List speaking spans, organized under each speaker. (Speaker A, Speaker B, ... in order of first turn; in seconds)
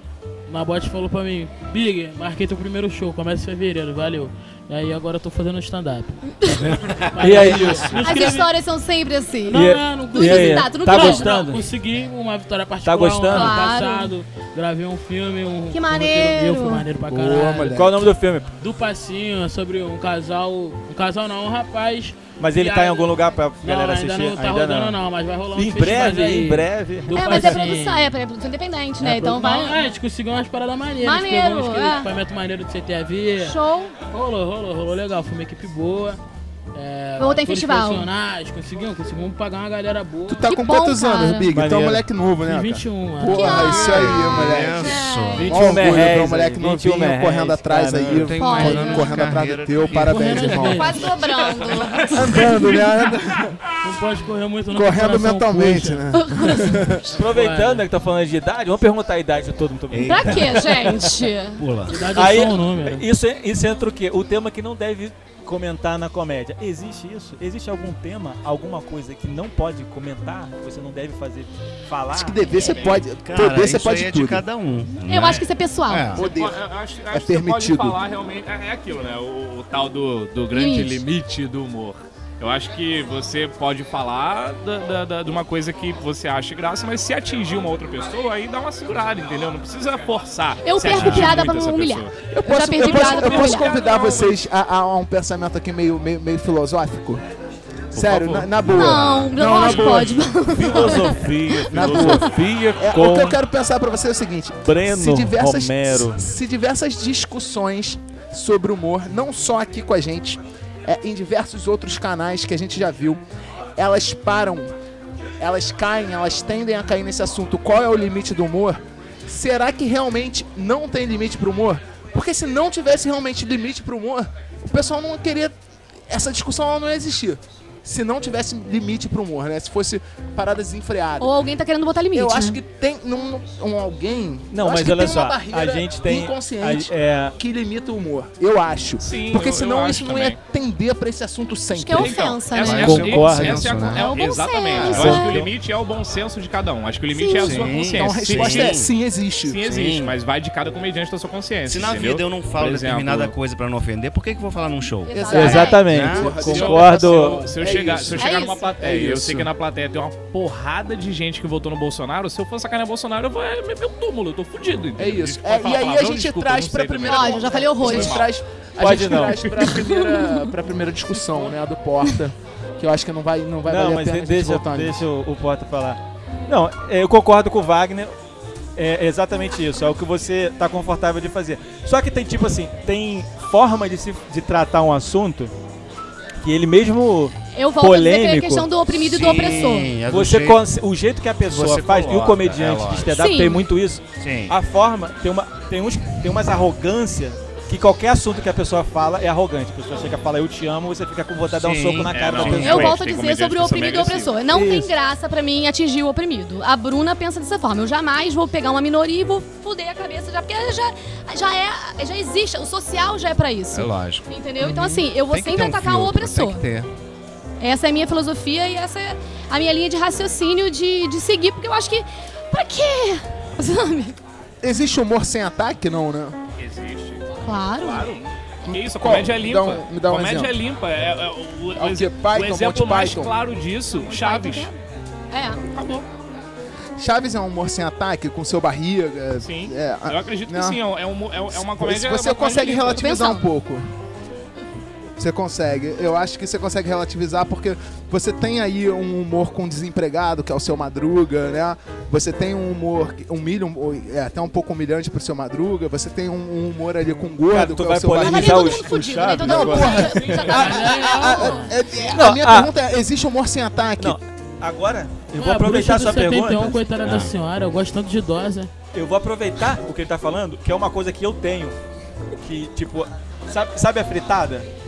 Speaker A: 0.5-6.2, 7.1-8.5, 9.5-17.8, 18.6-23.1, 23.6-28.1, 29.0-36.2, 36.7-40.5, 42.4-43.8, 50.0-51.1, 53.8-56.0, 57.2-57.8, 61.9-63.0, 260.4-261.7, 265.3-268.7
Speaker B: 6.6-7.9, 43.6-45.5, 48.0-50.6, 59.9-60.6, 61.6-62.1, 73.1-76.3, 90.9-91.4, 98.7-99.3, 142.6-144.2, 144.7-145.5, 147.3-148.9, 149.6-150.2, 151.7-156.7, 188.9-190.6, 191.5-193.3, 194.2-194.6, 201.5-203.0, 213.7-216.9, 267.0-267.3
Speaker C: 7.2-8.0, 9.5-11.7, 12.8-13.6, 17.7-18.5, 22.4-25.0, 25.5-27.6, 41.5-42.0, 45.4-48.3, 57.1-61.1, 62.1-73.0, 97.9-98.8, 100.4-103.4, 104.6-106.2, 134.5-137.3, 142.6-143.7, 155.3-157.5, 168.8-169.5, 173.7-178.1, 178.8-185.5, 186.4-188.7, 190.1-203.0, 204.5-204.9, 257.4-260.2, 262.1-262.7, 264.0-266.8, 268.9-271.7, 272.3-274.7
Speaker D: 8.0-11.5, 13.3-14.1, 15.7-16.9, 27.1-29.8, 31.0-32.1, 33.4-33.9, 37.2-38.1, 40.4-41.5, 43.3-45.5, 48.4-49.1, 50.6-52.8, 56.1-56.8, 60.0-61.6, 75.1-76.2, 80.5-81.0, 90.6-93.7, 98.8-102.2, 131.2-132.6, 141.7-145.4, 147.1-147.7, 155.0-155.9, 158.1-158.7, 167.0-168.2, 169.7-170.0, 187.5-189.9, 193.1-193.6, 202.6-216.6, 217.6-224.2, 227.4-228.1, 234.0-234.7, 235.3-235.6, 242.8-243.4, 258.2-261.7
Speaker E: 17.1-18.0, 40.3-51.1, 52.1-53.6, 54.7-57.1, 72.1-74.4, 76.2-78.0, 92.3-97.2, 97.9-101.0, 101.7-113.2, 113.8-114.7, 115.4-125.5, 126.1-131.3, 132.1-142.5, 147.7-149.6, 155.1-159.5, 165.0-175.0, 224.6-226.4, 228.7-230.5, 231.8-233.3, 237.0-240.8, 241.5-243.8, 245.2-258.8, 259.4-264.2
Speaker F: 72.6-73.0, 76.2-92.2, 92.8-94.4, 139.0-140.4, 142.0-148.8, 149.4-153.3, 156.4-168.3, 169.2-169.8, 202.1-204.4, 226.6-227.2, 227.8-234.7, 235.7-236.1, 239.4-243.0, 260.1-260.6